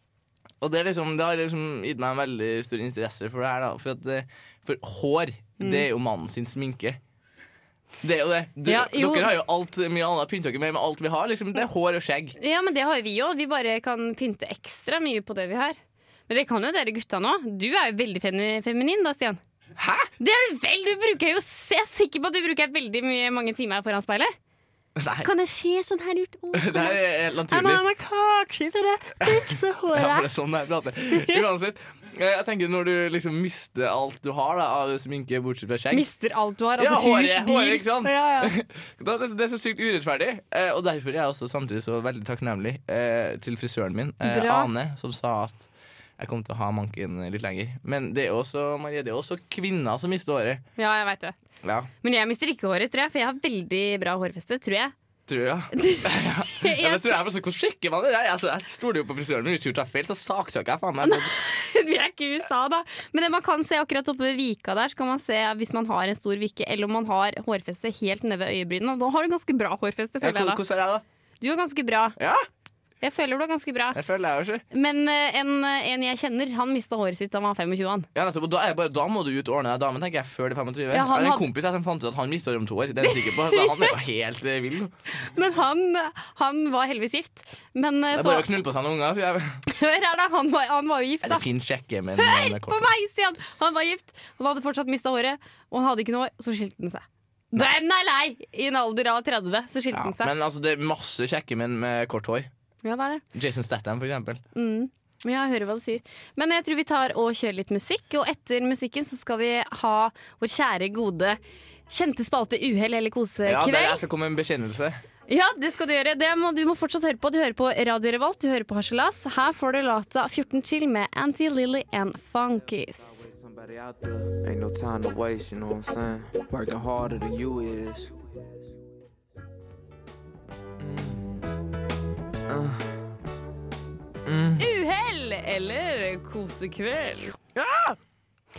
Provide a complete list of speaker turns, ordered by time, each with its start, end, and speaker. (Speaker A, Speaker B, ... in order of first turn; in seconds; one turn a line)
Speaker A: 0.6-7.0
Speaker A: 8.0-12.4
Speaker B: 8.7-9.3
Speaker B: 12.4-15.8
Speaker B: 16.3-19.4
Speaker A: 19.8-20.1
Speaker B: 20.2-24.3
Speaker A: 25.0-25.3
Speaker B: 25.2-27.0
Speaker A: 26.6-27.8
Speaker B: 27.5-30.3
Speaker A: 29.2-36.1
Speaker B: 31.1-31.4
Speaker B: 35.9-38.5
Speaker A: 36.8-45.7
Speaker B: 44.2-44.7
Speaker A: 46.2-50.6
Speaker B: 50.8-51.4
Speaker A: 51.6-51.9
Speaker B: 52.0-54.9
Speaker A: 55.3-61.3
Speaker B: 55.8-57.2
Speaker B: 61.0-70.6
Speaker A: 70.2-71.0
Speaker B: 71.4-72.2
Speaker A: 72.2-72.5
Speaker B: 73.0-74.0
Speaker A: 73.9-74.6
Speaker B: 74.7-78.1
Speaker A: 78.2-84.9
Speaker B: 80.9-81.5
Speaker B: 83.1-83.9
Speaker B: 85.2-88.5
Speaker A: 88.1-89.6
Speaker B: 89.7-91.4
Speaker A: 91.2-92.9
Speaker B: 92.2-100.3
Speaker A: 99.9-102.5
Speaker B: 102.8-103.2
Speaker A: 103.3-104.4
Speaker B: 104.5-114.0
Speaker A: 113.5-115.0
Speaker B: 115.3-123.3
Speaker C: 123.0-128.2
Speaker A: 134.3-134.6
Speaker B: 134.6-137.4
Speaker A: 137.6-137.9